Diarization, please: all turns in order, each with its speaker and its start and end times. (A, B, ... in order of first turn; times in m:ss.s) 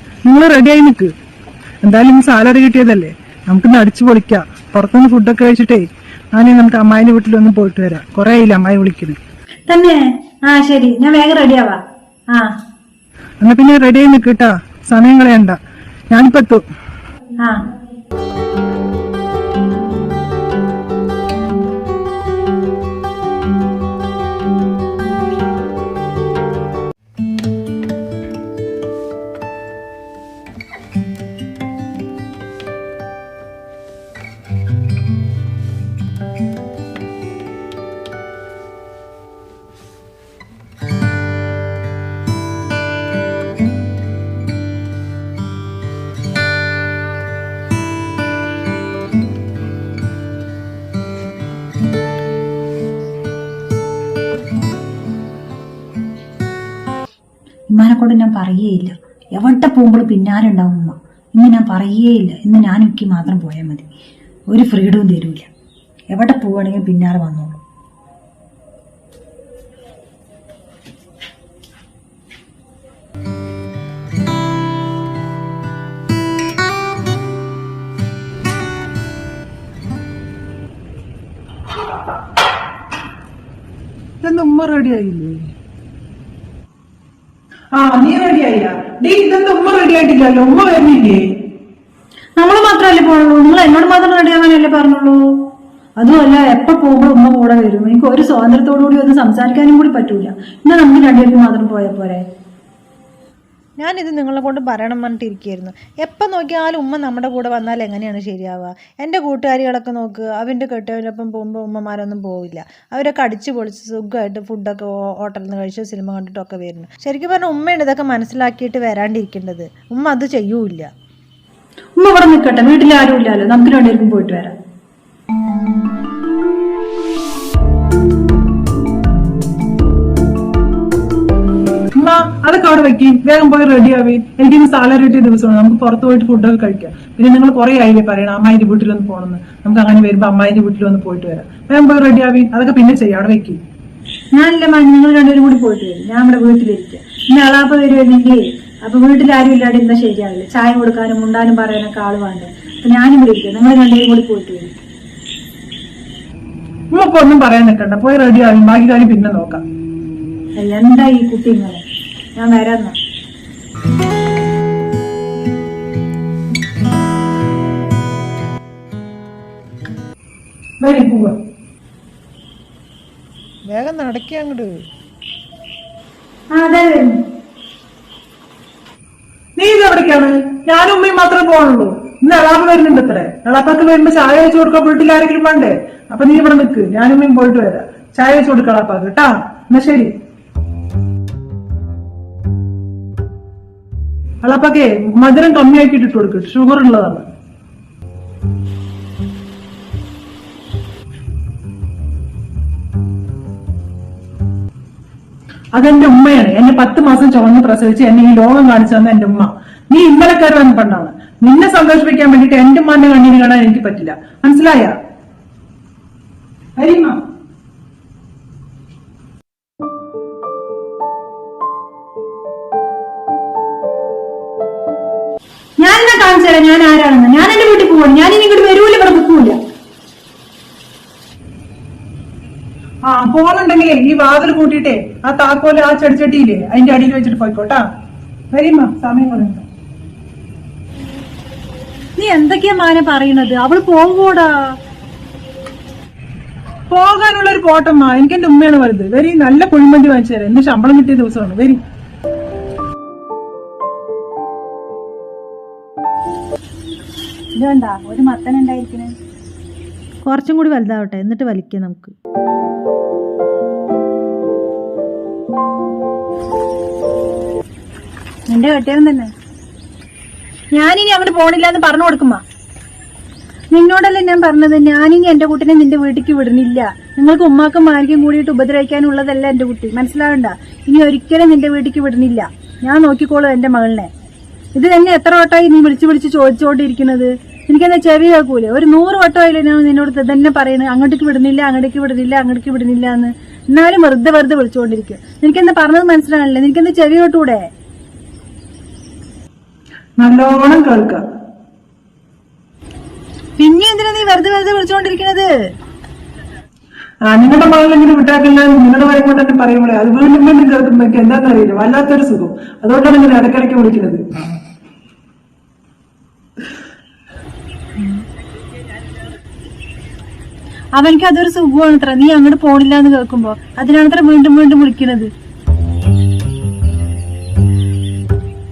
0:00.3-0:01.1 A
0:01.8-0:09.2 A
0:09.7-0:12.6 B
0:13.4-0:15.6 A
0:16.1-0:16.6 A
0:57.7-1:03.9 B
1:04.5-1:05.5 B
1:06.1-1:07.6 B
1:24.2-1:25.4 A
1:27.7-1:31.3 A
1:32.4-1:35.2 B
1:36.0-1:42.2 B
1:43.8-2:00.9 C
2:02.0-2:04.6 B
2:12.0-2:23.6 A
2:24.3-2:34.7 B
2:36.9-2:39.6 A
2:40.6-2:41.8 B
2:42.4-2:43.0 B
2:50.8-2:51.4 A
2:53.7-2:54.7 C
2:56.5-2:57.2 B
2:59.6-3:10.1 A
3:14.4-3:17.2 A
3:25.7-3:34.9 A
3:36.8-3:37.2 A
3:45.8-3:49.6 B
3:53.0-3:57.8 A
3:58.5-3:59.6 A
4:02.2-4:04.8 B
4:06.9-4:11.8 A
4:17.5-4:19.1 B
4:20.2-4:22.1 C
4:28.5-4:29.3 B
4:30.7-4:32.4 B
4:33.7-4:44.1 B
4:44.8-4:57.7 B
5:00.2-5:01.2 A
5:03.6-5:05.5 B
5:07.3-5:14.2 A
5:21.0-5:25.3 B